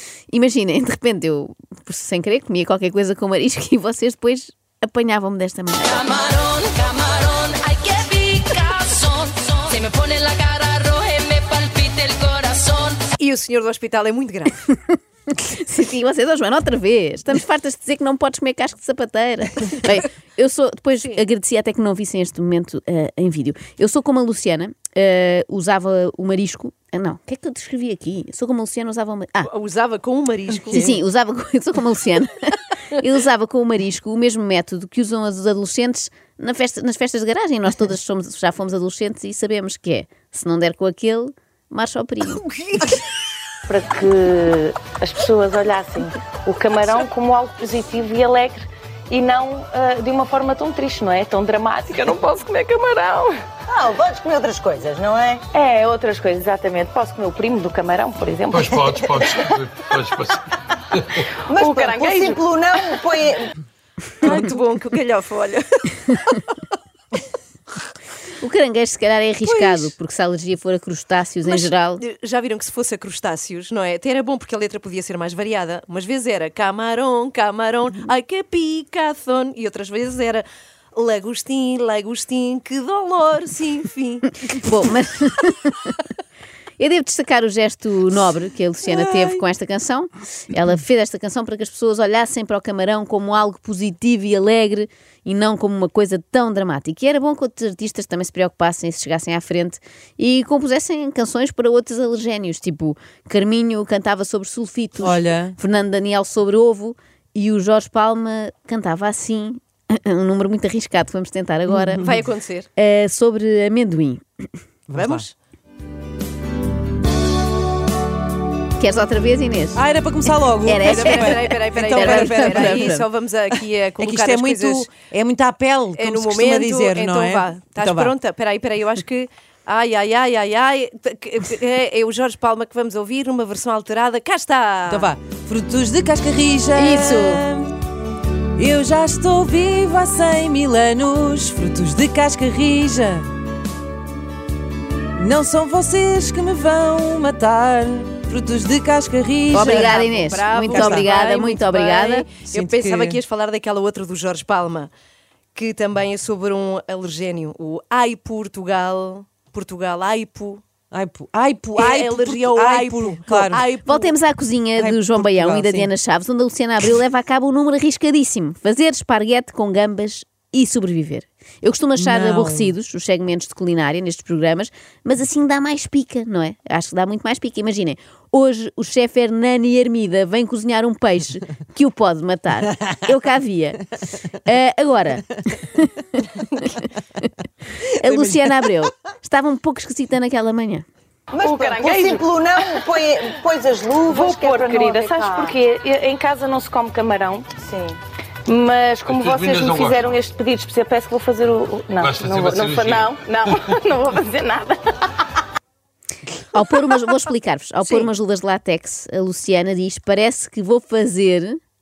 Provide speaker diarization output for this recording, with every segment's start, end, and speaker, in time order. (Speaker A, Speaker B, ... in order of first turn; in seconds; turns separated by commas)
Speaker A: 0.3-6.0, Speaker B: 5.8-13.1, Speaker C: 13.2-14.6, Speaker A: 14.7-29.5, Speaker C: 29.4-31.0, Speaker A: 30.7-42.4, Speaker D: 43.7-53.4, Speaker E: 53.7-55.4, Speaker D: 55.5-59.5, Speaker F: 58.5-60.4, Speaker E: 61.5-63.5, Speaker D: 61.5-62.4, Speaker C: 64.2-66.4, Speaker A: 68.4-72.0, Speaker C: 69.4-69.9, Speaker C: 71.4-80.4, Speaker C: 81.0-84.3, Speaker A: 84.5-86.0, Speaker A: 86.8-112.0, Speaker G: 105.0-105.5, Speaker G: 111.7-112.0, Speaker C: 112.0-112.7, Speaker A: 112.8-114.2, Speaker G: 114.9-115.3, Speaker C: 114.9-115.3, Speaker A: 118.8-119.8, Speaker G: 119.7-122.9, Speaker A: 120.7-123.1, Speaker C: 120.8-124.9, Speaker G: 124.0-128.1, Speaker C: 126.0-135.1, Speaker G: 134.9-137.8, Speaker A: 136.8-137.5, Speaker G: 138.5-143.3, Speaker G: 145.2-149.8, Speaker C: 149.5-154.9, Speaker A: 149.5-152.3, Speaker G: 150.7-151.1, Speaker G: 152.4-153.2, Speaker C: 155.6-160.6, Speaker G: 160.9-163.7, Speaker C: 161.8-164.2, Speaker A: 163.9-187.3, Speaker G: 164.8-165.9, Speaker G: 172.0-172.8, Speaker A: 187.8-190.8, Speaker E: 191.3-195.5, Speaker D: 191.4-192.3, Speaker D: 194.1-197.5, Speaker E: 197.6-198.0, Speaker D: 198.5-205.1, Speaker F: 199.1-200.1, Speaker F: 202.0-203.1, Speaker A: 206.5-211.6, Speaker C: 207.8-208.1